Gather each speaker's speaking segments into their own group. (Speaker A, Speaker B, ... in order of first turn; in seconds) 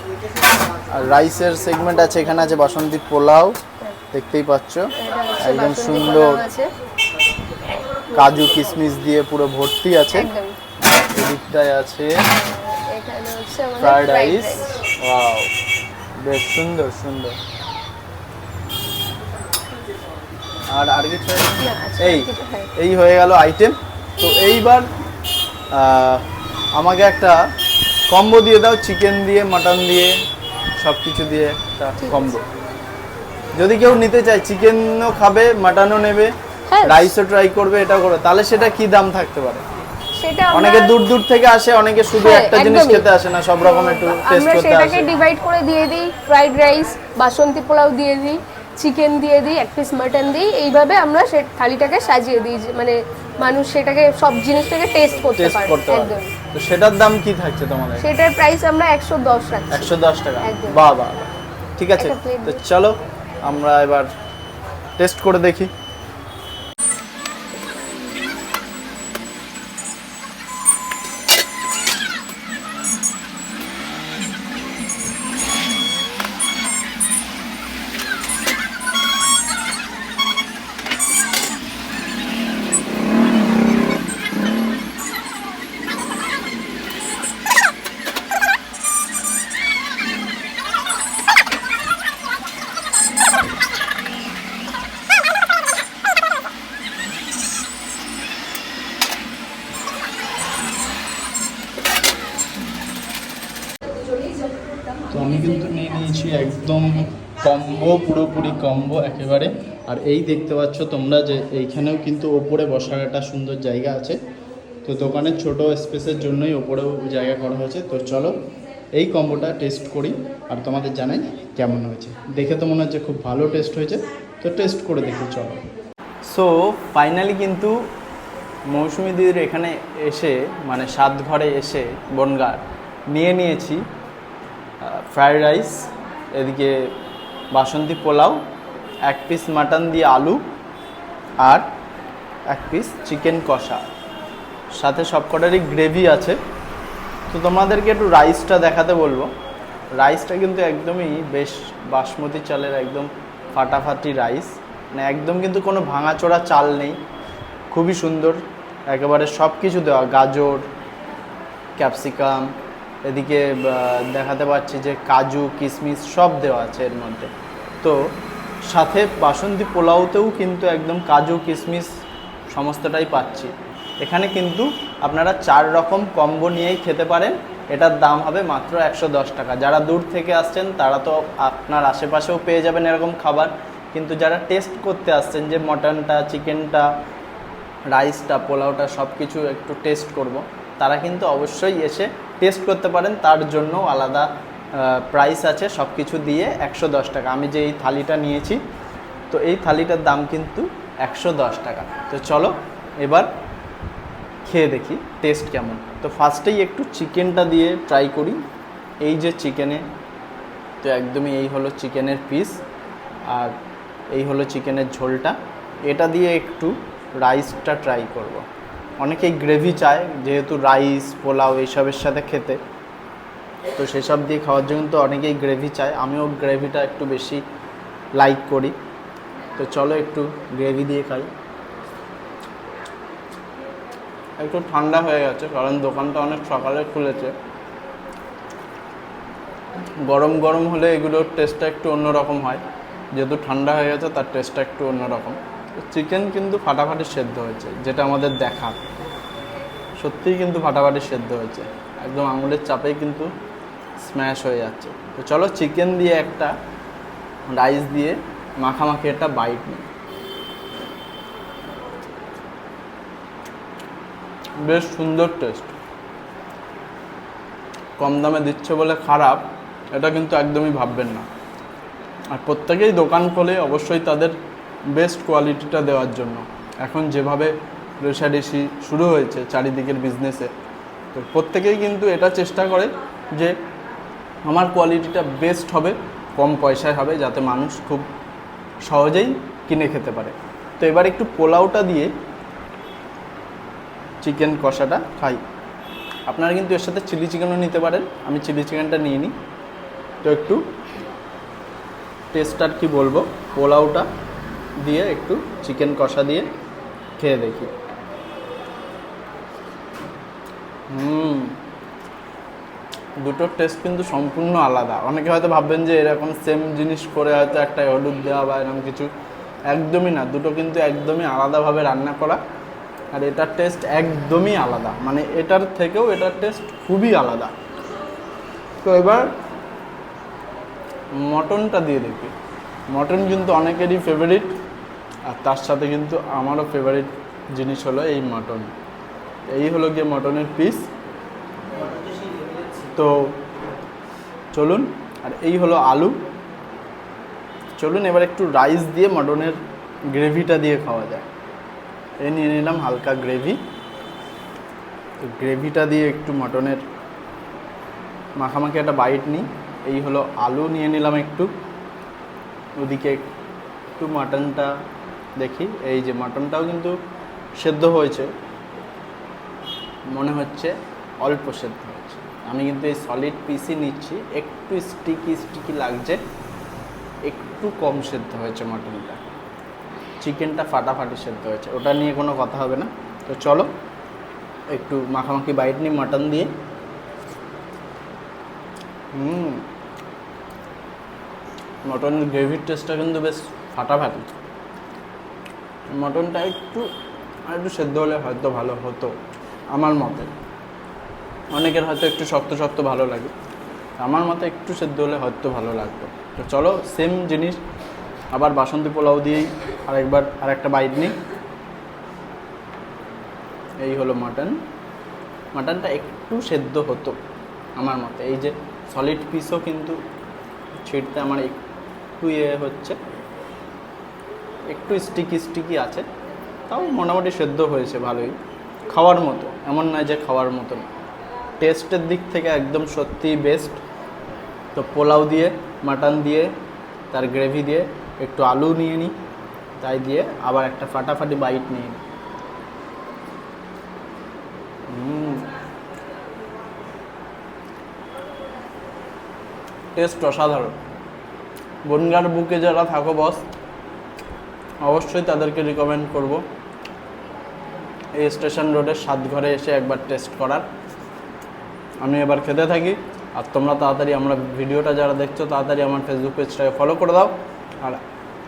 Speaker A: 0.9-3.6, 4.1-6.4, 8.2-10.3, 10.8-12.2, 13.8-15.5, 16.2-17.4, 20.7-24.9, 25.7-26.2, 26.8-27.4, 28.1-30.1, 30.8-32.5, 33.6-39.6, 40.5-45.1, 55.1-58.0, 59.7-64.1, 65.0-65.7, 105.1-114.2, 114.8-118.3, 119.0-125.6, 126.3-127.8, 128.7-133.8, 134.8-136.7, 137.5-138.4, 139.1-140.4, 141.4-141.7, 142.5-143.8, 144.8-146.4, 147.3-149.3, 150.0-157.0, 157.7-158.4, 158.9-160.6, 161.8-162.5, 163.1-167.3, 168.7-171.9, 172.5-186.9, 187.9-198.6, 199.3-203.3, 204.5-208.4, 209.0-209.8, 210.8-212.6, 213.3-213.6, 214.1-215.4, 215.9-218.4, 219.0-222.6, 223.8-227.4, 228.2-228.8, 229.6-231.3, 234.4-237.3, 240.0-242.6, 243.2-248.8, 250.0-253.3, 254.0-256.5, 257.5-259.9, 264.6-265.8, 268.0-271.3, 272.3-274.4, 274.9-280.5, 281.1-283.5, 284.4-288.1, 288.9-292.1, 294.2-295.4, 296.3-299.3, 300.2-300.6, 302.3-304.1, 304.8-306.5, 307.2-307.7, 310.9-311.6, 313.2-319.1, 319.7-322.4, 323.1-327.5, 328.8-329.3, 331.2-332.3, 332.9-334.6, 335.3-338.7, 339.5-340.9, 342.8-343.3, 344.5-346.1, 347.8-349.6, 350.1-351.3, 352.2-353.6, 355.2-356.8, 358.4-361.5, 362.8-363.3, 364.0-364.7, 365.4-366.9, 367.6-368.3, 370.1-376.2, 377.3-379.2, 380.2-383.7, 384.7-386.5, 389.1-389.6, 391.9-394.3, 395.9-396.9, 397.5-399.1, 399.7-400.3, 401.5-403.3, 404.0-407.6, 408.3-411.1, 413.8-414.5, 415.5-417.2, 417.8-420.0, 420.8-421.6, 422.2-423.0, 424.7-426.1, 426.7-428.4, 428.9-430.9, 431.6-433.8, 434.7-436.5, 437.1-439.1, 439.8-442.0, 444.9-445.5, 450.0-450.8, 451.9-453.4, 454.8-456.4, 458.2-460.6, 462.0-468.0
Speaker B: 5.0-6.7, 10.1-10.6, 12.3-14.8, 21.6-22.7, 32.0-32.4, 36.7-37.1, 40.2-41.0, 42.1-43.1, 43.6-56.3, 58.0-60.8, 62.0-62.6